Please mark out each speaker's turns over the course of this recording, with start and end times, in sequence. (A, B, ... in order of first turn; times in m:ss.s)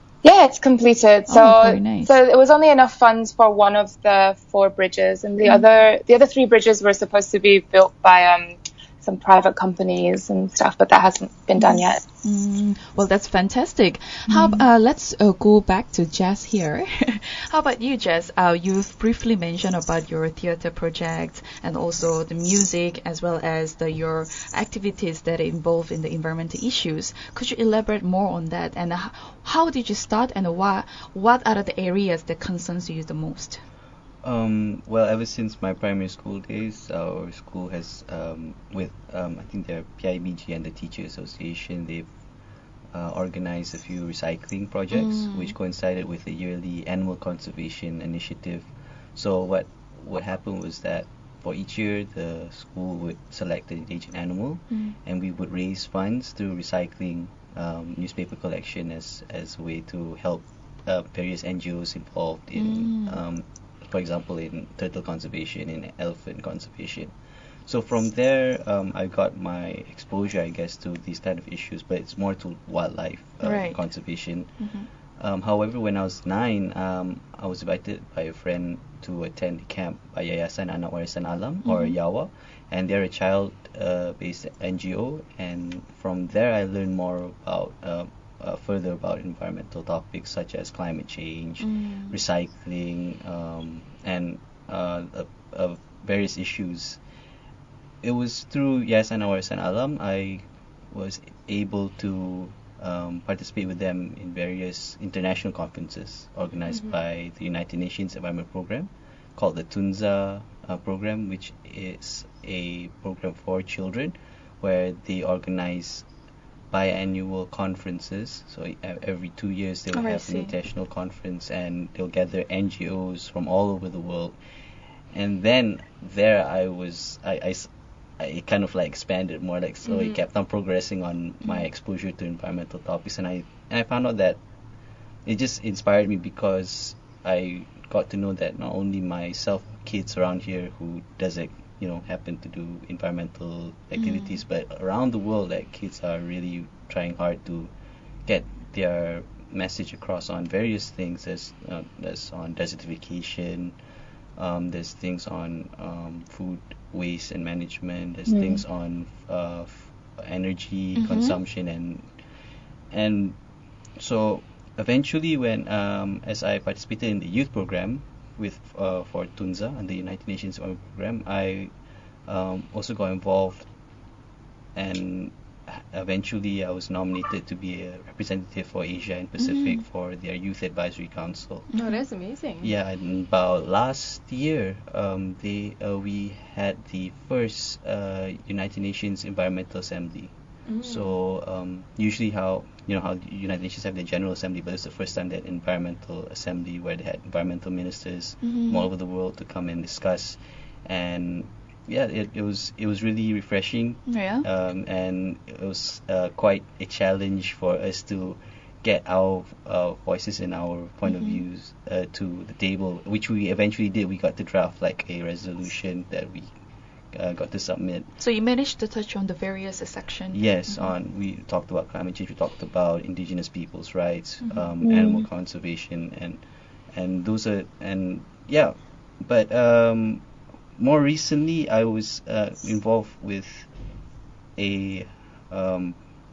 0:00.2-0:12.0 A
0:01.3-0:02.1 B
0:11.6-0:33.6 B
0:14.3-0:14.6 A
0:34.2-0:42.1 C
0:42.9-1:14.5 C
0:44.9-0:45.5 B
1:02.6-1:03.2 B
1:13.4-1:13.8 B
1:14.6-1:14.9 B
1:15.2-1:37.0 C
1:21.6-1:22.0 B
1:31.6-1:32.2 B
1:38.0-1:56.0 C
1:46.7-1:47.0 D
1:56.7-2:04.4 C
1:59.9-2:00.5 B
2:05.1-2:14.4 C
2:09.9-2:10.2 D
2:15.2-2:27.7 C
2:24.0-2:24.4 B
2:28.3-2:33.8 C
2:34.4-2:42.1 C
2:38.3-2:38.6 A
2:41.0-2:41.4 B
2:42.9-2:43.4 C
2:44.0-2:51.7 C
2:52.3-2:53.7 C
2:54.8-3:01.7 C
2:59.4-2:59.8 B
3:01.7-3:02.0 B
3:01.8-3:02.7 D
3:02.6-3:10.3 C
3:10.7-3:11.2 D
3:10.8-3:36.5 C
3:18.4-3:18.9 B
3:24.1-3:24.4 B
3:31.1-3:31.4 B
3:37.1-3:38.1 C
3:38.2-3:40.9 B
3:40.3-3:50.2 C
3:44.8-3:45.3 A
3:50.8-3:53.7 C
3:54.6-3:56.0 C